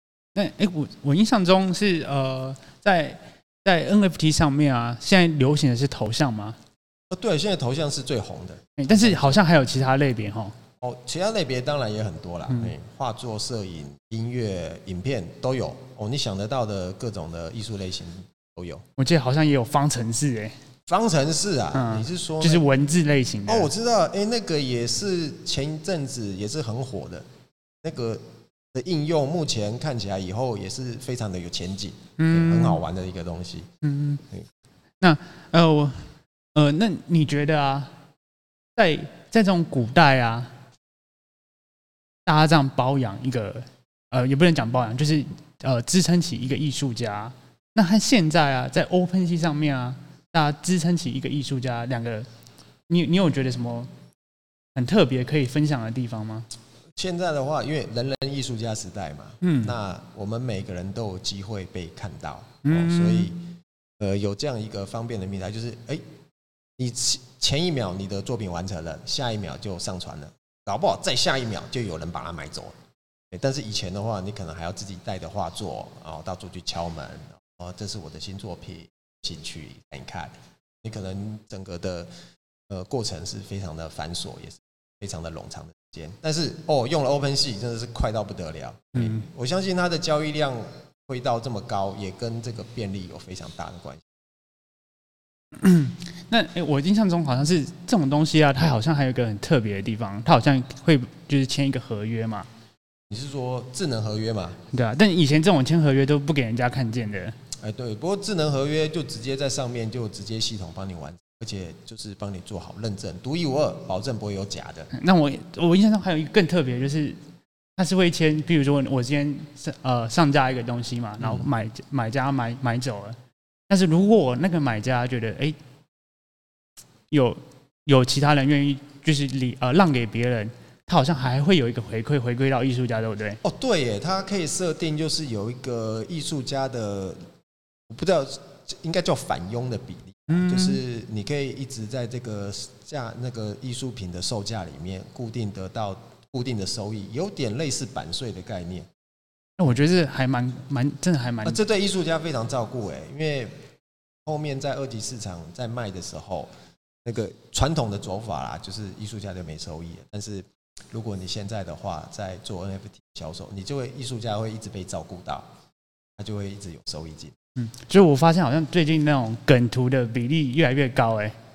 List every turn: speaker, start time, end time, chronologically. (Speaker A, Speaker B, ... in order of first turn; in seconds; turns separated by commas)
Speaker A: 0.3-6.6, Speaker B: 7.1-9.4, Speaker A: 8.8-10.5, Speaker B: 10.8-18.8, Speaker A: 12.5-12.7, Speaker A: 19.0-20.5, Speaker B: 20.9-22.7, Speaker A: 21.7-23.7, Speaker B: 23.5-27.2, Speaker B: 27.8-33.7, Speaker A: 32.2-32.8, Speaker A: 33.8-34.2, Speaker A: 35.0-37.9, Speaker A: 38.8-40.5, Speaker A: 42.2-52.3, Speaker A: 52.9-53.9, Speaker A: 54.8-56.5, Speaker B: 57.0-63.4, Speaker A: 59.4-59.8, Speaker A: 62.6-63.3, Speaker B: 64.0-66.0, Speaker B: 66.8-72.7, Speaker B: 73.3-82.1, Speaker B: 82.7-94.1, Speaker A: 89.0-89.2, Speaker A: 95.6-102.5, Speaker B: 103.1-104.6, Speaker A: 104.7-107.3, Speaker B: 107.6-114.9, Speaker A: 114.9-117.2, Speaker A: 117.8-123.2, Speaker B: 121.2-121.5, Speaker A: 123.7-125.5, Speaker A: 127.1-133.4, Speaker B: 133.4-137.2, Speaker B: 137.9-148.9, Speaker A: 140.3-140.8, Speaker A: 149.6-151.6, Speaker B: 151.4-153.5, Speaker B: 154.2-156.5, Speaker B: 157.0-165.5, Speaker B: 166.2-167.3, Speaker A: 167.6-171.3